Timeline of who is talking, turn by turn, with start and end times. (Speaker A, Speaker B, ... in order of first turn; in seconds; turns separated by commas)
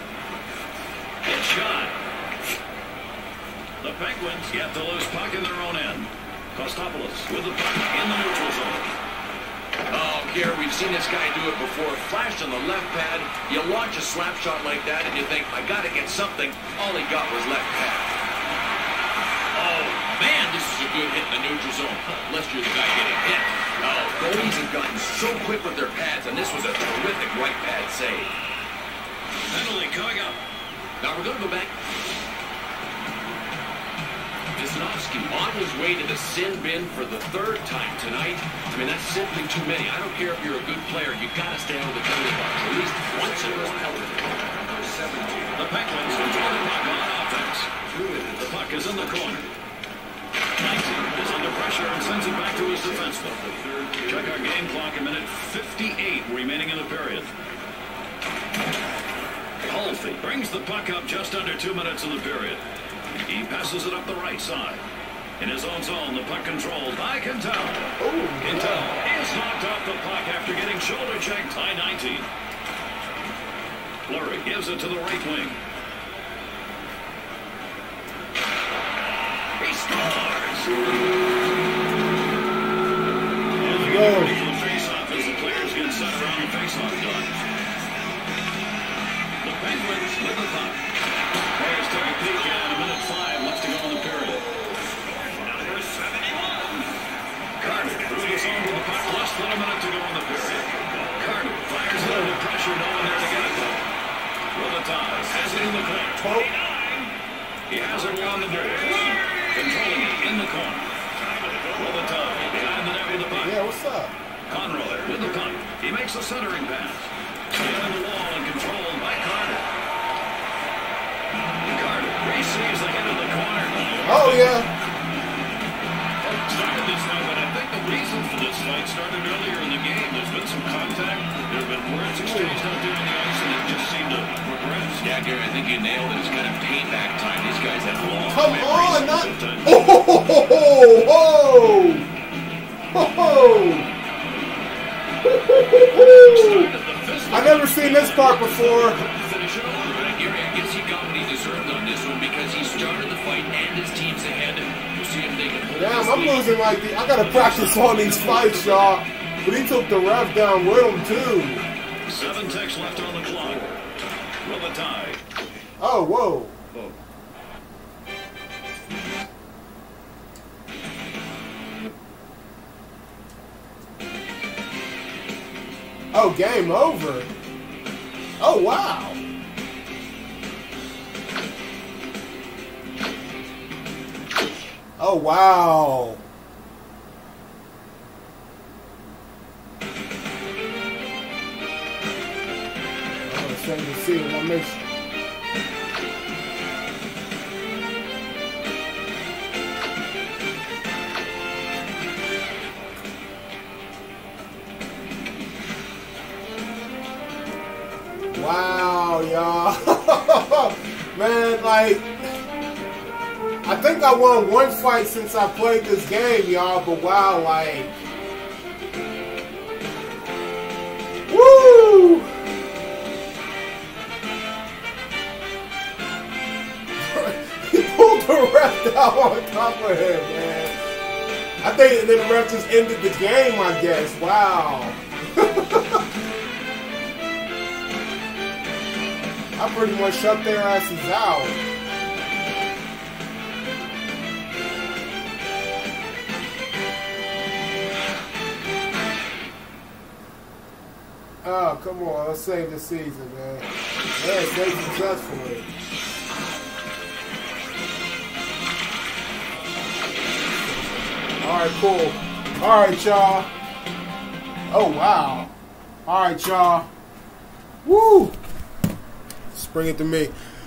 Speaker A: 1.2-1.9, Speaker A: 3.8-8.9, Speaker B: 9.9-18.1, Speaker B: 19.5-28.3, Speaker A: 29.5-30.4, Speaker B: 31.0-31.7, Speaker B: 34.5-45.5, Speaker A: 45.6-47.7, Speaker B: 47.9-48.4, Speaker A: 48.3-49.5, Speaker A: 50.6-53.4, Speaker B: 52.8-54.2, Speaker A: 54.0-57.3, Speaker A: 59.6-62.6, Speaker A: 63.3-64.8, Speaker A: 65.4-67.9, Speaker C: 68.0-68.9, Speaker A: 68.4-72.3, Speaker A: 74.1-75.6, Speaker A: 79.6-80.8, Speaker A: 83.6-87.3, Speaker C: 83.6-84.4, Speaker A: 89.4-90.8, Speaker A: 91.5-94.5, Speaker A: 97.6-103.8, Speaker C: 102.0-102.4, Speaker A: 104.5-106.3, Speaker C: 106.2-106.5, Speaker A: 107.7-110.9, Speaker A: 111.7-113.6, Speaker C: 113.2-114.2, Speaker A: 114.5-119.7, Speaker A: 121.6-124.6, Speaker C: 124.0-124.7, Speaker A: 126.2-135.0, Speaker C: 132.2-132.7, Speaker B: 135.0-139.3, Speaker A: 137.9-139.7, Speaker C: 138.3-142.1, Speaker C: 142.9-143.9, Speaker C: 145.2-146.7, Speaker A: 146.3-147.5, Speaker B: 147.1-156.6, Speaker C: 147.3-149.0, Speaker C: 155.7-161.6, Speaker A: 157.2-158.9, Speaker B: 157.9-158.7, Speaker A: 162.1-163.7, Speaker A: 164.4-165.2, Speaker C: 165.8-166.6, Speaker C: 176.1-177.3, Speaker C: 178.4-179.2, Speaker C: 185.0-186.2, Speaker C: 193.3-194.8, Speaker C: 208.3-212.1, Speaker C: 213.6-217.9, Speaker C: 221.3-222.3, Speaker C: 227.0-230.8, Speaker C: 231.6-236.1, Speaker C: 239.6-241.6, Speaker C: 251.4-255.7, Speaker C: 260.7-263.5, Speaker C: 264.7-265.5, Speaker C: 266.1-266.9, Speaker C: 267.9-268.4, Speaker C: 269.5-270.4